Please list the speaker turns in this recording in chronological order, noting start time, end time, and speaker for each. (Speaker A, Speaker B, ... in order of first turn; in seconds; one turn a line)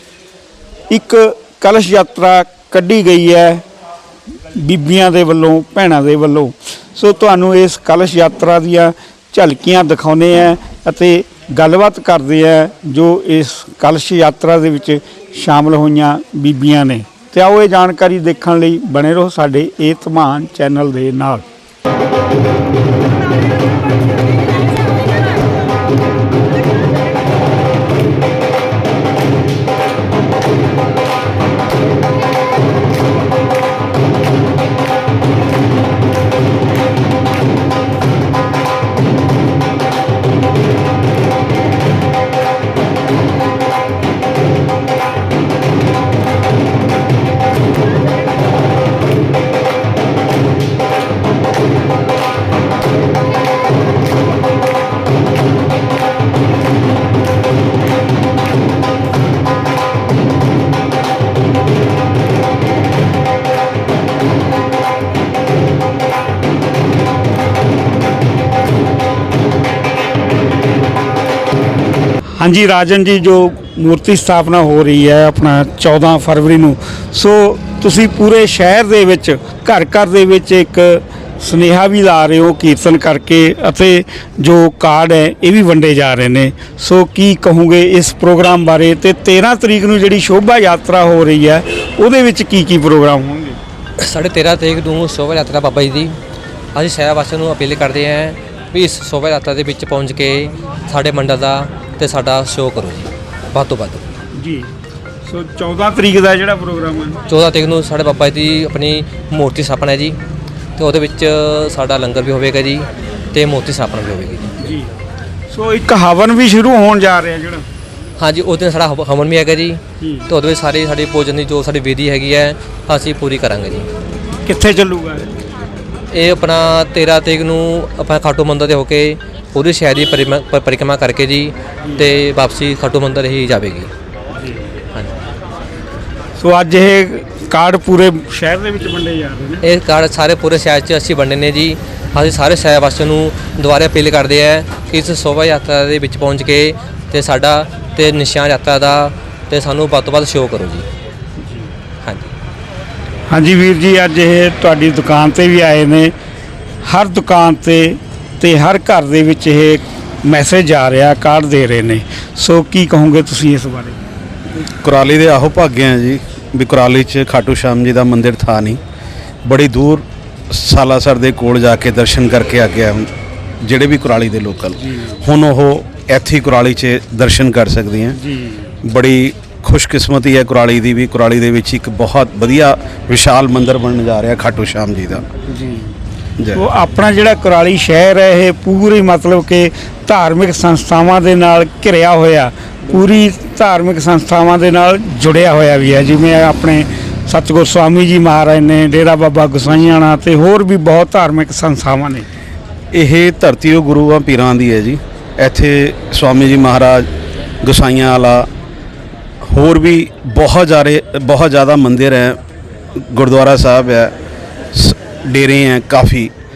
Speaker A: 0.9-3.6
Speaker A: 4.5-21.4
Speaker A: 72.4-93.6
Speaker B: 94.0-96.2
Speaker B: 96.7-104.0
Speaker A: 104.4-104.7
Speaker A: 105.3-107.2
Speaker B: 107.3-110.2
Speaker B: 110.8-114.5
Speaker A: 114.6-114.9
Speaker A: 115.5-117.6
Speaker B: 118.2-123.9
Speaker A: 120.0-120.3
Speaker A: 124.5-125.3
Speaker B: 126.1-133.9
Speaker A: 136.4-139.6
Speaker B: 139.6-150.8
Speaker B: 152.0-152.3
Speaker A: 153.3-156.1
Speaker A: 156.8-164.0
Speaker C: 164.7-168.8
Speaker C: 169.4-173.1
Speaker C: 173.6-178.2
Speaker C: 178.8-185.3
Speaker A: 185.5-185.8
Speaker A: 186.5-202.3
Speaker C: 202.9-207.1
Speaker C: 207.6-208.5
Speaker C: 209.5-212.4
Speaker C: 212.9-214.1
Speaker C: 214.7-216.3